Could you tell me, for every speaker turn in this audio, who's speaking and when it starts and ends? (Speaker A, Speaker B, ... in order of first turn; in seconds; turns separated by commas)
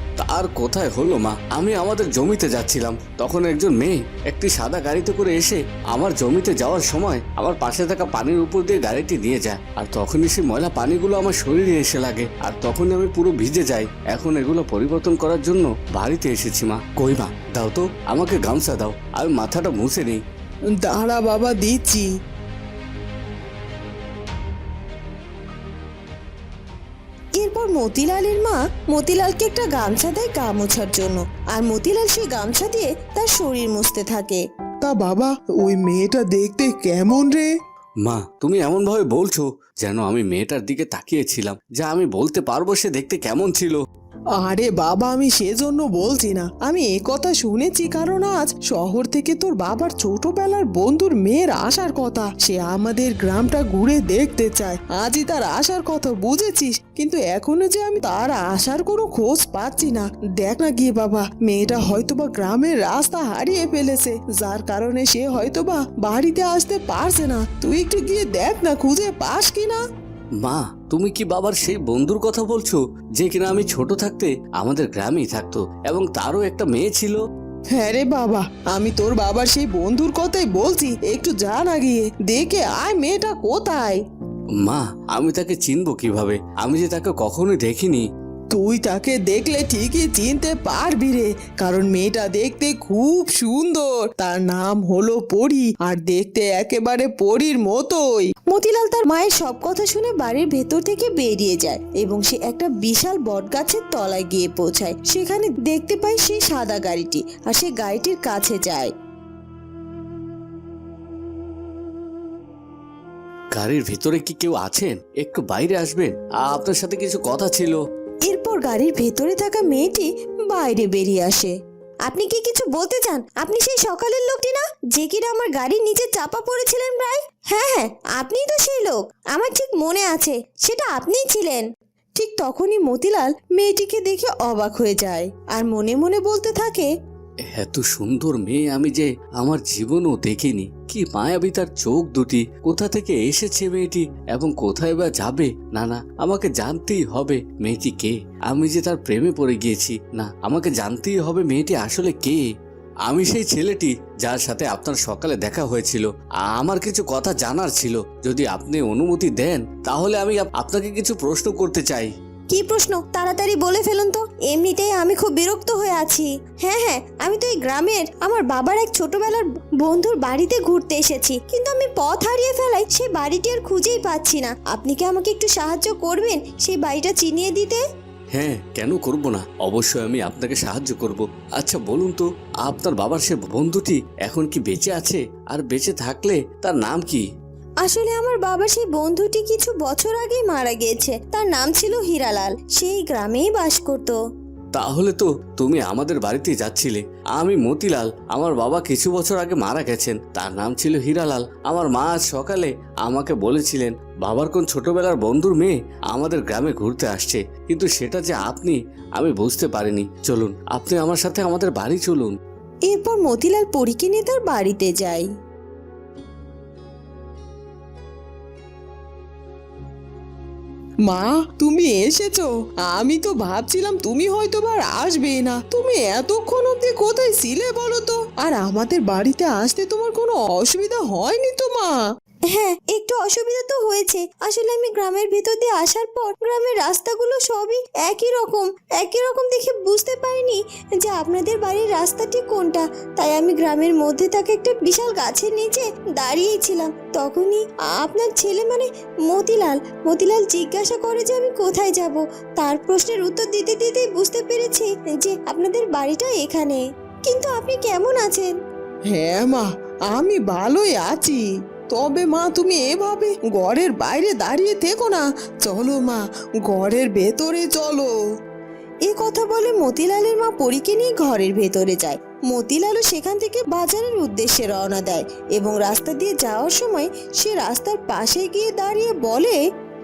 Speaker A: 0.2-20.2, Speaker B: 20.8-22.1, Speaker C: 27.4-34.4, Speaker B: 34.8-37.5, Speaker A: 38.0-43.8, Speaker B: 44.4-69.8, Speaker A: 70.4-77.2, Speaker B: 77.8-84.0, Speaker A: 84.6-88.1, Speaker B: 88.5-98.3, Speaker C: 98.4-108.9, Speaker A: 113.5-117.8, Speaker C: 118.3-136.9, Speaker A: 137.5-152.5, Speaker A: 153.1-162.1, Speaker C: 162.5-177.8, Speaker A: 178.3-187.2, Speaker C: 187.8-194.2, Speaker A: 194.7-212.4, Speaker C: 212.9-215.3, Speaker B: 221.1-232.0, Speaker C: 232.5-258.6, Speaker B: 259.1-268.1, Speaker C: 269.1-279.6